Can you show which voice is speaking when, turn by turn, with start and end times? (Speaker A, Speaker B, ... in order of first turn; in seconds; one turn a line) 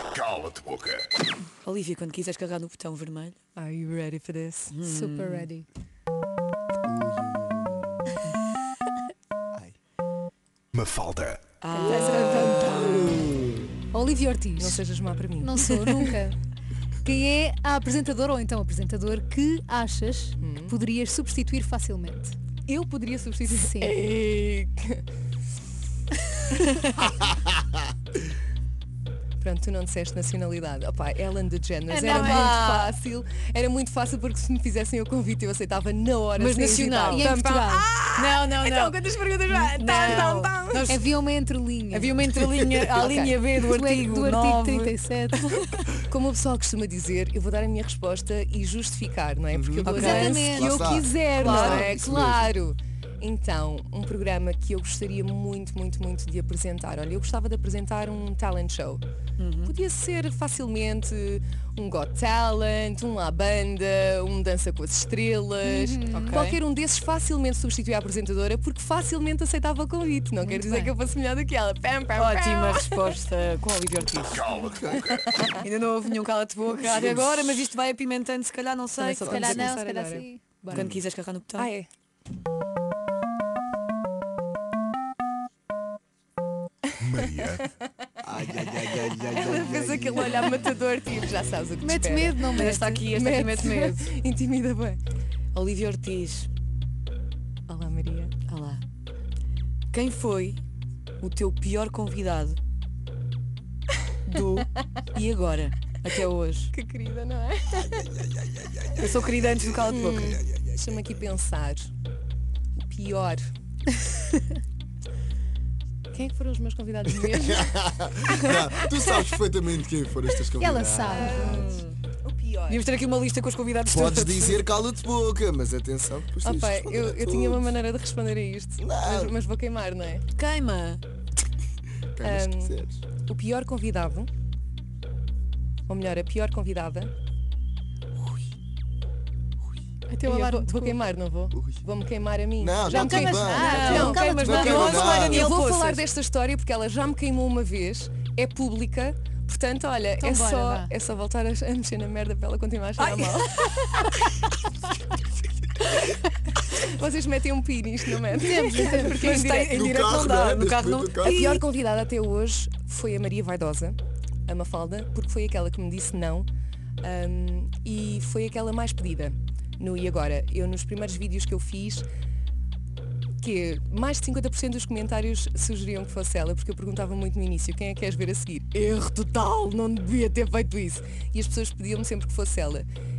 Speaker A: 0.2-1.0
Speaker B: 1.6-3.4
Speaker C: 3.6-4.8
Speaker B: 4.7-5.5
Speaker D: 4.8-5.7
Speaker E: 6.8-8.2
Speaker A: 10.7-11.5
Speaker B: 11.6-13.0
Speaker D: 11.7-13.2
Speaker C: 11.8-12.8
Speaker E: 12.5-13.7
Speaker D: 13.9-14.8
Speaker C: 14.6-16.2
Speaker D: 15.4-16.4
Speaker D: 17.0-22.4
Speaker C: 20.4-20.8
Speaker C: 22.7-25.0
Speaker D: 23.5-23.9
Speaker B: 26.5-27.1
Speaker C: 29.4-40.9
Speaker D: 31.9-32.7
Speaker B: 32.1-33.0
Speaker B: 36.4-37.4
Speaker D: 37.1-37.9
Speaker B: 38.2-39.0
Speaker B: 39.6-41.0
Speaker D: 40.9-42.4
Speaker B: 41.9-45.8
Speaker C: 42.7-43.4
Speaker D: 43.6-45.4
Speaker C: 46.0-59.0
Speaker E: 49.5-52.5
Speaker B: 49.9-51.9
Speaker D: 49.9-51.9
Speaker B: 59.4-59.7
Speaker C: 59.7-73.1
Speaker D: 65.6-66.5
Speaker B: 66.1-66.6
Speaker D: 70.4-70.9
Speaker B: 72.2-74.5
Speaker E: 74.6-75.2
Speaker C: 74.9-75.6
Speaker B: 75.6-79.8
Speaker E: 77.0-77.7
Speaker C: 79.0-80.3
Speaker D: 79.1-81.0
Speaker B: 80.7-81.7
Speaker E: 80.7-81.0
Speaker C: 81.6-81.9
Speaker A: 87.0-87.6
Speaker C: 87.2-87.6
Speaker E: 88.2-90.4
Speaker B: 88.5-90.2
Speaker C: 89.3-95.0
Speaker D: 91.8-93.0
Speaker B: 92.5-94.1
Speaker B: 95.5-96.5
Speaker C: 97.7-98.3
Speaker B: 98.5-98.8
Speaker B: 99.9-100.6
Speaker B: 101.2-102.6
Speaker B: 104.3-106.7
Speaker C: 106.7-108.5
Speaker E: 108.9-109.5
Speaker B: 109.0-110.4
Speaker C: 109.8-111.9
Speaker E: 110.2-110.7
Speaker C: 112.8-113.4
Speaker C: 116.1-118.6
Speaker E: 117.2-121.6
Speaker D: 120.6-121.8
Speaker B: 121.1-122.0
Speaker C: 121.1-121.7
Speaker C: 122.2-122.8
Speaker B: 122.7-124.6
Speaker E: 123.9-127.8
Speaker C: 126.4-130.2
Speaker E: 128.8-129.3
Speaker B: 130.3-131.0
Speaker E: 132.1-133.0
Speaker C: 132.2-134.3
Speaker C: 135.9-137.1
Speaker D: 140.1-141.0
Speaker C: 140.2-154.3
Speaker E: 141.5-141.8
Speaker E: 142.6-145.5
Speaker D: 142.8-145.5
Speaker B: 143.6-146.1
Speaker D: 150.2-150.9
Speaker C: 156.6-159.9
Speaker D: 158.3-159.2
Speaker B: 158.8-161.6
Speaker E: 159.7-161.4
Speaker C: 161.2-166.5
Speaker C: 167.0-172.1
Speaker C: 173.4-182.9